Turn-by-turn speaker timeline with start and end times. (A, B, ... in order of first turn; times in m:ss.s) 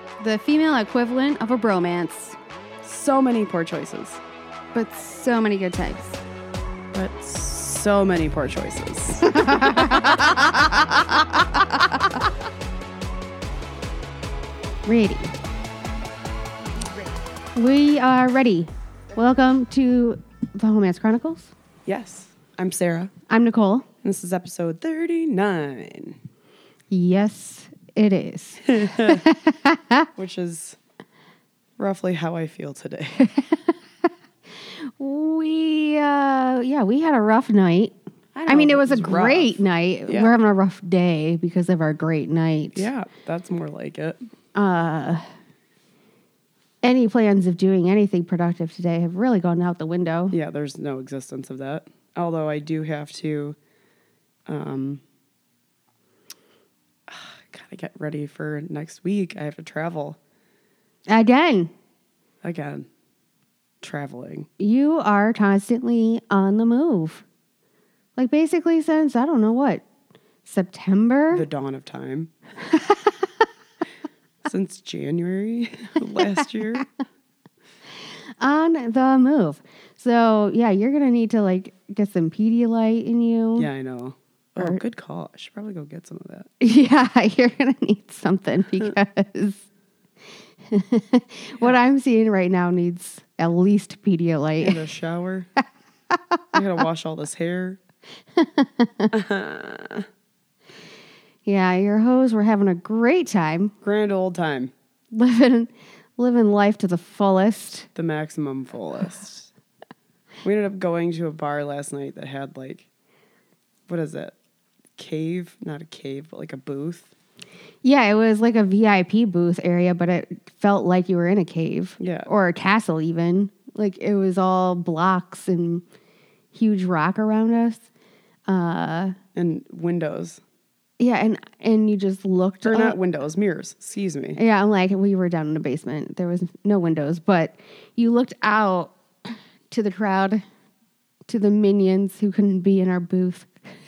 0:00.2-0:02.4 A
0:02.8-0:04.2 B
0:04.7-0:06.2 A
0:06.9-0:11.6 B
0:09.3-0:10.6 A
0:14.9-0:15.3 A
0:17.6-0:21.5 A
0:21.9-0:23.1 B
0:23.3-0:23.9 A
0:24.0-0:26.2 B
0:26.9-0:30.1 A
0:28.7-0:29.2 B
0:30.2-0:30.8 B
0:31.8-0:33.2 B
0:33.2-0:33.7 A
0:35.0-0:38.0 A
0:38.4-0:39.6 B
0:38.5-0:42.9 A
0:40.1-0:40.4 B
0:42.8-0:44.2 B
0:44.6-0:45.2 A
0:46.8-0:50.4 A
0:50.3-0:53.6 B
0:54.5-0:55.0 B
0:57.1-1:00.2 B
1:01.1-1:01.7 A
1:02.4-1:02.9 B
1:03.8-1:04.5 B
1:04.6-1:07.2 A
1:08.2-1:09.8 A
1:10.4-1:11.5 A
1:11.3-1:12.3 B
1:12.7-1:13.2 A
1:14.4-1:16.9 B
1:18.4-1:23.7 A
1:23.6-1:26.5 B
1:26.6-1:29.6 A
1:30.7-1:34.8 A
1:34.6-1:35.5 B
1:36.5-1:37.8 B
1:38.4-1:39.1 A
1:39.1-1:40.1 B
1:41.5-1:43.7 A
1:43.8-1:44.7 B
1:45.1-1:47.9 A
1:48.0-1:49.5 B
1:50.4-1:52.9 B
1:53.9-1:54.4 B
1:55.0-1:57.1 B
1:57.8-2:05.8 A
2:02.0-2:02.3 B
2:06.5-2:07.8 A
2:08.5-2:09.1 A
2:09.4-2:10.4 B
2:11.0-2:13.0 A
2:12.6-2:14.4 B
2:14.4-2:19.0 A
2:19.7-2:20.4 A
2:21.3-2:23.5 A